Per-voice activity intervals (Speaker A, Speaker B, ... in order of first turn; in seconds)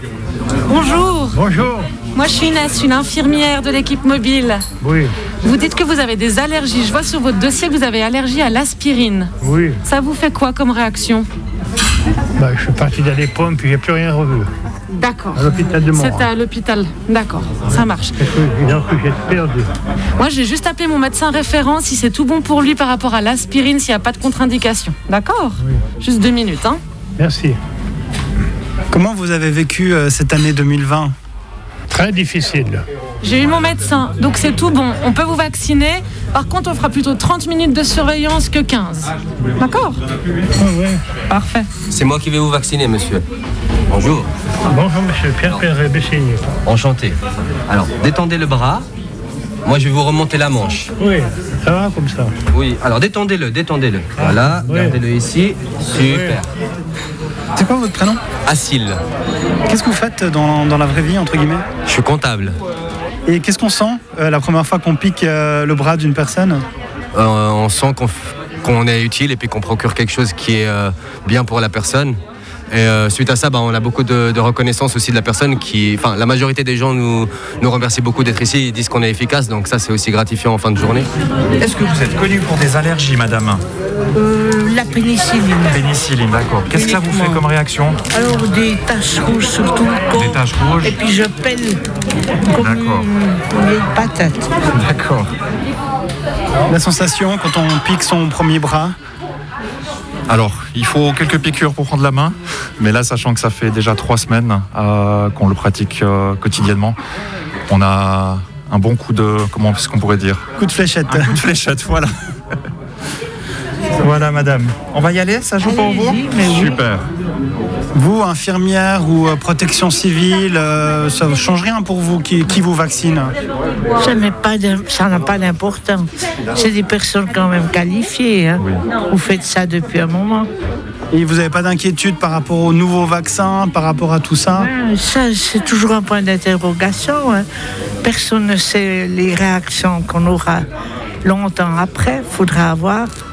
Speaker A: 0.7-1.4, 2.1-4.6, 5.4-9.3, 9.8-11.3, 14.9-15.4, 16.0-18.1, 20.2-26.8, 33.2-40.0, 41.3-41.7
Speaker B: 1.3-1.9, 4.8-5.1, 9.4-9.8, 12.4-14.5, 15.3-16.3, 18.2-19.7, 27.2-27.6, 31.9-32.8, 40.6-41.0, 44.7-46.4, 51.0-52.3, 54.1-55.0, 56.0-56.4
Speaker C: 28.9-31.1, 57.5-58.2, 59.7-61.6, 63.2-66.6, 96.7-98.9, 110.6-111.4, 117.9-123.3, 131.1-134.7
Speaker D: 41.9-43.2, 43.9-44.3, 46.6-47.1, 47.7-48.9, 49.6-50.9, 52.5-56.5, 58.4-59.0, 61.9-62.5, 67.1-72.2, 72.7-81.1
Speaker E: 81.6-83.6, 85.7-88.0, 90.1-91.0, 92.6-93.1, 94.7-95.3, 100.3-107.0, 107.7-110.4, 111.1-112.1, 114.0-117.0
Speaker F: 84.2-85.7, 86.8-87.3, 88.1-91.8, 92.5-94.5, 115.7-116.7, 124.0-130.5, 134.6-137.4, 138.0-140.7, 141.2-143.1